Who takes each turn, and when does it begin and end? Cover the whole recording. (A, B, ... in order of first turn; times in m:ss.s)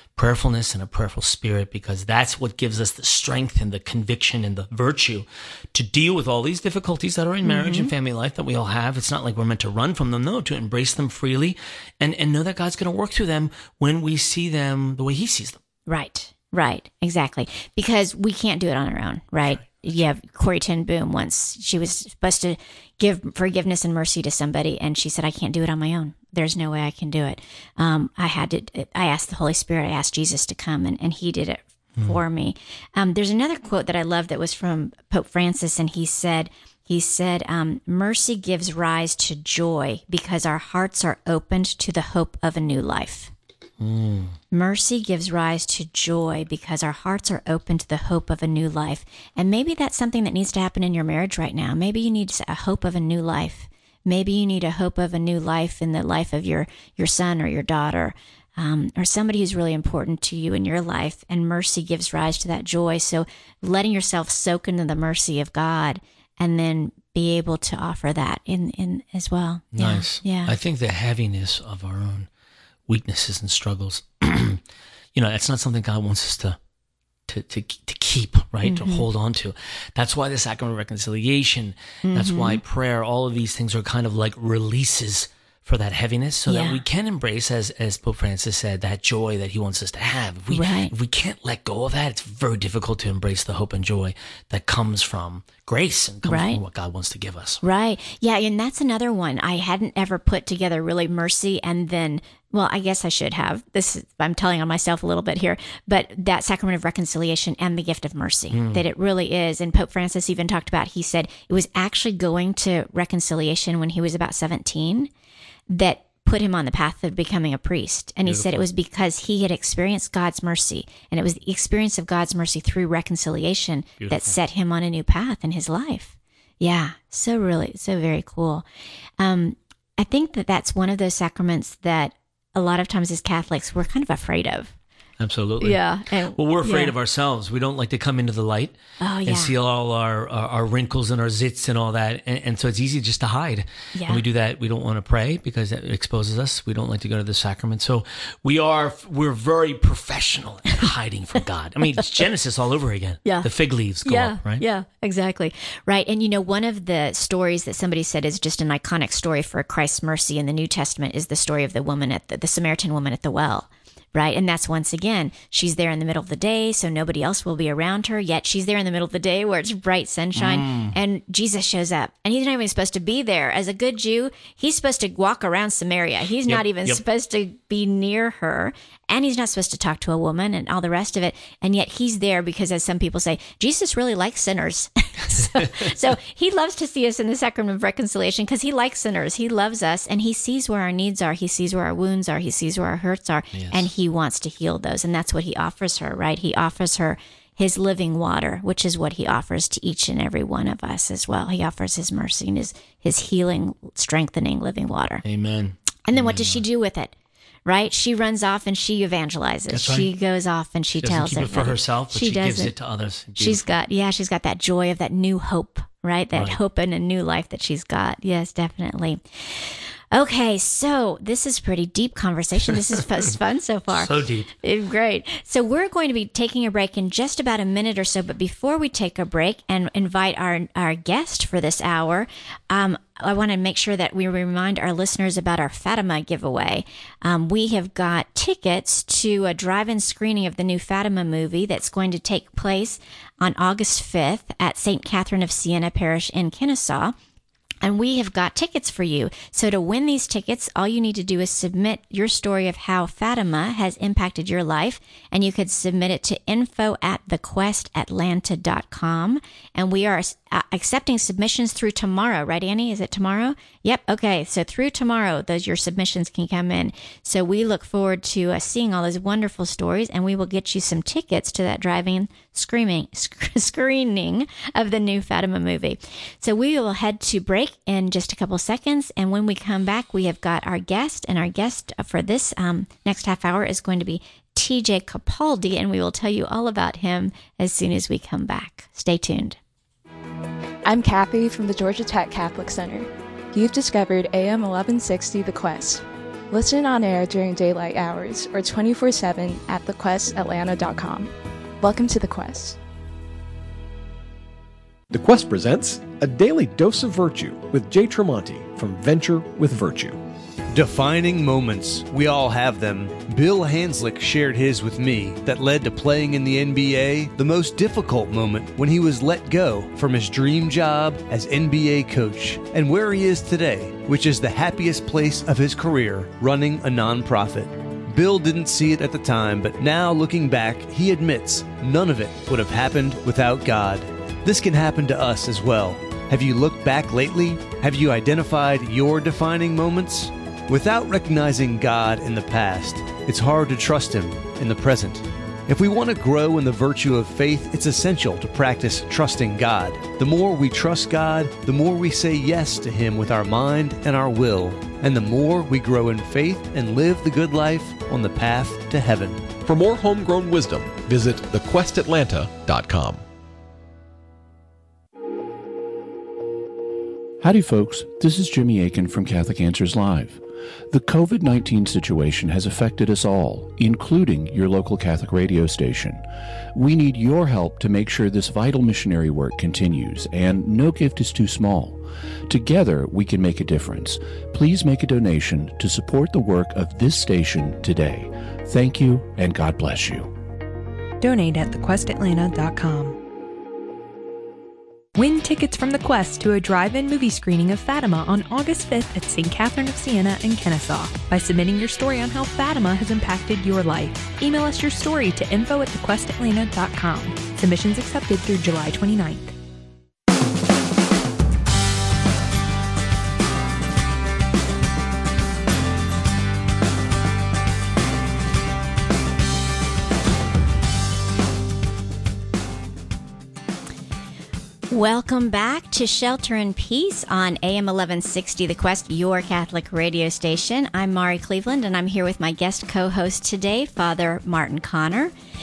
0:00.2-0:15.6 A
0:07.4-0:07.9 B
0:15.9-0:43.3 B
0:43.8-0:44.4 A
0:44.5-1:10.6 B
1:09.7-1:12.3 A
1:12.9-1:14.6 A
1:15.1-1:16.6 A
1:17.3-1:37.6 A
1:18.6-1:19.1 B
1:22.0-1:22.6 B
1:26.5-1:26.8 B
1:30.5-1:30.9 B
1:36.2-1:36.6 B
1:37.6-1:55.1 B
1:48.5-1:48.8 A
1:55.7-2:08.6 B
1:58.2-1:58.7 A
2:04.0-2:04.4 A
2:09.2-2:14.7 B
2:15.2-2:34.6 A
2:15.6-2:16.9 B
2:19.0-2:19.5 B
2:23.9-2:24.2 B
2:33.2-2:33.5 B
2:34.0-3:25.2 B
2:50.4-2:51.0 A
2:56.5-2:57.0 A
3:05.3-3:05.9 A
3:13.5-3:13.9 A
3:25.2-3:26.6 A
3:26.1-3:27.1 B
3:27.6-3:32.7 B
3:29.7-3:30.1 A
3:31.0-3:33.6 A
3:33.4-4:07.2 B
3:43.9-3:44.5 A
4:07.8-4:49.6 B
4:50.8-5:02.8 C
5:05.1-5:10.2 D
5:10.7-5:59.5 E
5:59.6-6:03.2 D
6:07.4-6:30.3 F
6:31.2-6:33.2 G
6:35.2-6:49.6 G
7:04.9-7:15.3 B